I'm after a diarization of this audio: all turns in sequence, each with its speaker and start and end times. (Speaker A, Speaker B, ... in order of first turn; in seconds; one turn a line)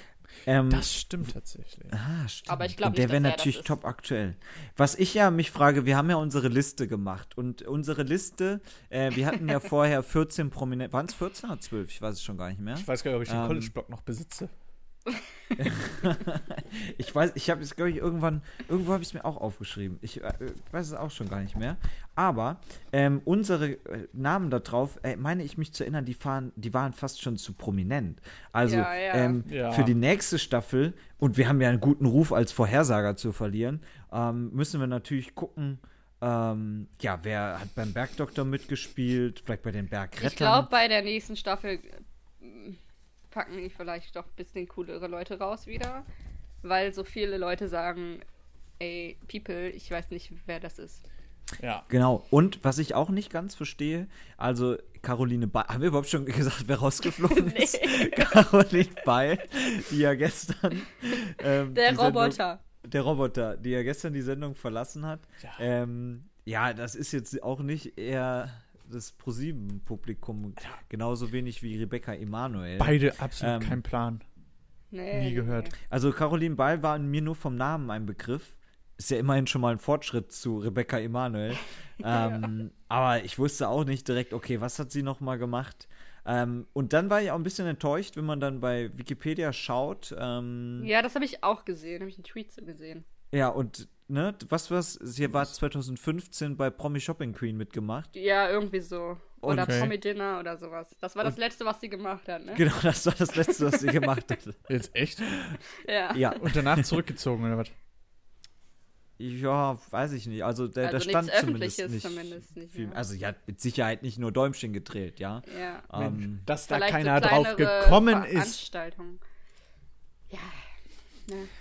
Speaker A: 0.5-0.9
Speaker B: 0.7-2.0
Speaker A: 1.9-13.7
Speaker C: 2.5-3.7
Speaker B: 12.8-14.5
Speaker A: 15.6-40.7
Speaker C: 28.6-29.4
Speaker B: 29.4-29.9
Speaker C: 40.2-42.8
Speaker C: 43.3-46.1
Speaker C: 46.6-48.2
Speaker C: 48.8-51.0
Speaker B: 51.6-51.9
Speaker A: 51.9-73.8
Speaker C: 57.1-58.5
Speaker C: 61.7-62.6
Speaker B: 72.8-74.2
Speaker C: 74.9-75.8
Speaker B: 75.1-75.7
Speaker A: 75.8-90.9
Speaker C: 82.0-82.5
Speaker C: 90.8-93.0
Speaker A: 93.3-98.1
Speaker C: 98.2-102.6
Speaker A: 99.4-99.9
Speaker B: 99.5-99.9
Speaker A: 102.5-104.6
Speaker C: 103.5-104.1
Speaker B: 104.7-105.3
Speaker A: 105.2-105.6
Speaker C: 105.8-106.4
Speaker A: 106.1-107.0
Speaker B: 106.4-107.7
Speaker A: 109.2-116.5
Speaker C: 110.8-113.0
Speaker C: 115.5-115.9
Speaker B: 115.9-118.6
Speaker C: 116.7-119.2
Speaker C: 120.3-120.6